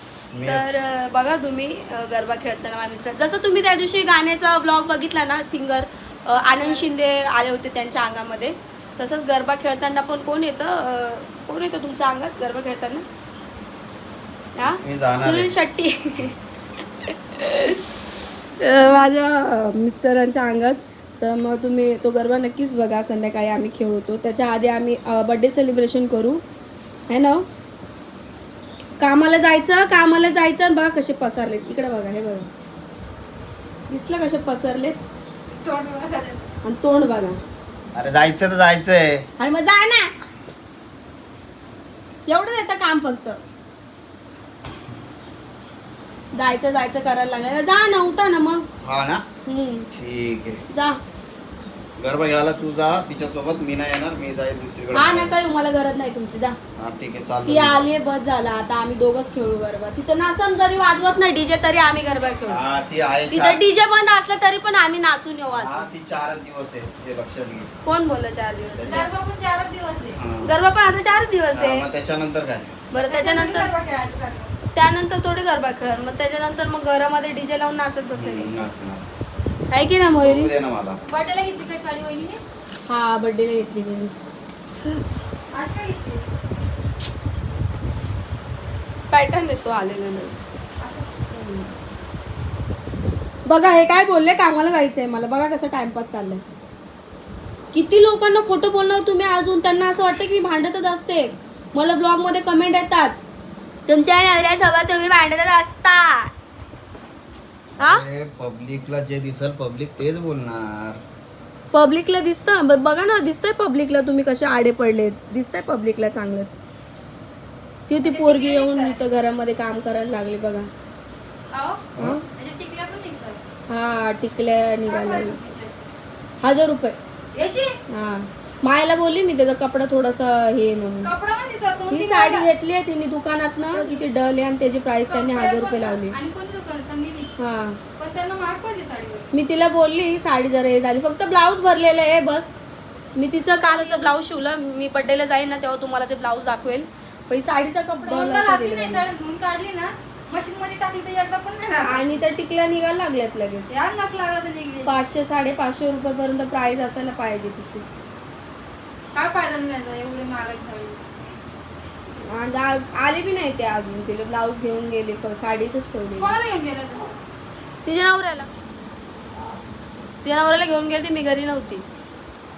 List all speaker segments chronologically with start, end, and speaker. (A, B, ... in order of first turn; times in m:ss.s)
0:00.3-0:00.7 A
0:00.4-0:13.0 B
0:06.5-0:06.9 C
0:14.6-0:16.4 B
0:14.6-0:15.5 A
0:17.1-0:26.4 B
0:27.1-0:27.4 B
0:29.0-0:32.5 B
0:33.9-0:35.0 B
0:35.6-0:36.4 C
0:36.6-0:37.4 B
0:37.9-0:39.2 A
0:39.4-0:40.1 B
0:42.3-0:43.4 B
0:46.3-0:48.7 B
0:48.8-0:49.2 A
0:49.4-0:49.9 B
0:49.9-0:50.6 A
0:50.7-0:51.0 B
0:52.0-0:55.4 A
0:54.9-0:56.6 B
0:56.8-0:57.9 A
0:57.4-1:02.6 B
1:02.5-1:03.6 A
1:03.3-1:05.9 B
1:05.5-1:07.7 A
1:07.8-1:09.1 B
1:08.7-1:09.1 A
1:08.8-1:10.2 C
1:10.1-1:10.5 A
1:10.4-1:11.9 B
1:11.5-1:12.7 A
1:12.9-1:13.7 B
1:13.0-1:14.6 C
1:14.7-1:18.6 B
1:18.1-1:19.1 A
1:19.7-1:20.5 B
1:20.2-1:21.0 A
1:21.0-1:22.4 C
1:22.8-1:24.1 B
1:25.5-1:26.2 C
1:29.1-1:30.4 B
1:30.8-1:31.3 C
1:33.4-1:36.4 B
1:37.7-1:43.2 B
1:43.9-1:46.3 B
1:47.8-1:51.0 A
1:47.8-1:48.0 B
1:51.7-1:56.6 B
1:57.9-2:00.7 B
1:58.0-1:59.0 C
2:01.5-2:03.4 C
2:02.0-2:02.2 B
2:03.7-2:05.4 B
2:04.8-2:05.8 C
2:06.4-2:07.0 B
2:07.3-2:07.8 C
2:07.9-2:11.1 B
2:11.0-2:12.5 C
2:11.9-2:16.2 B
2:13.7-2:14.0 C
2:15.1-2:17.3 C
2:17.4-2:17.8 B
2:18.0-2:19.3 C
2:19.3-2:22.5 B
2:23.2-2:29.0 B
2:23.6-2:24.1 C
2:28.0-2:32.2 C
2:31.8-2:33.7 B
2:33.7-2:35.0 C
2:34.8-2:37.8 B
2:39.1-2:41.0 C
2:42.2-2:46.3 B
2:46.2-2:47.1 C
2:47.8-2:48.5 B
2:50.2-2:51.8 B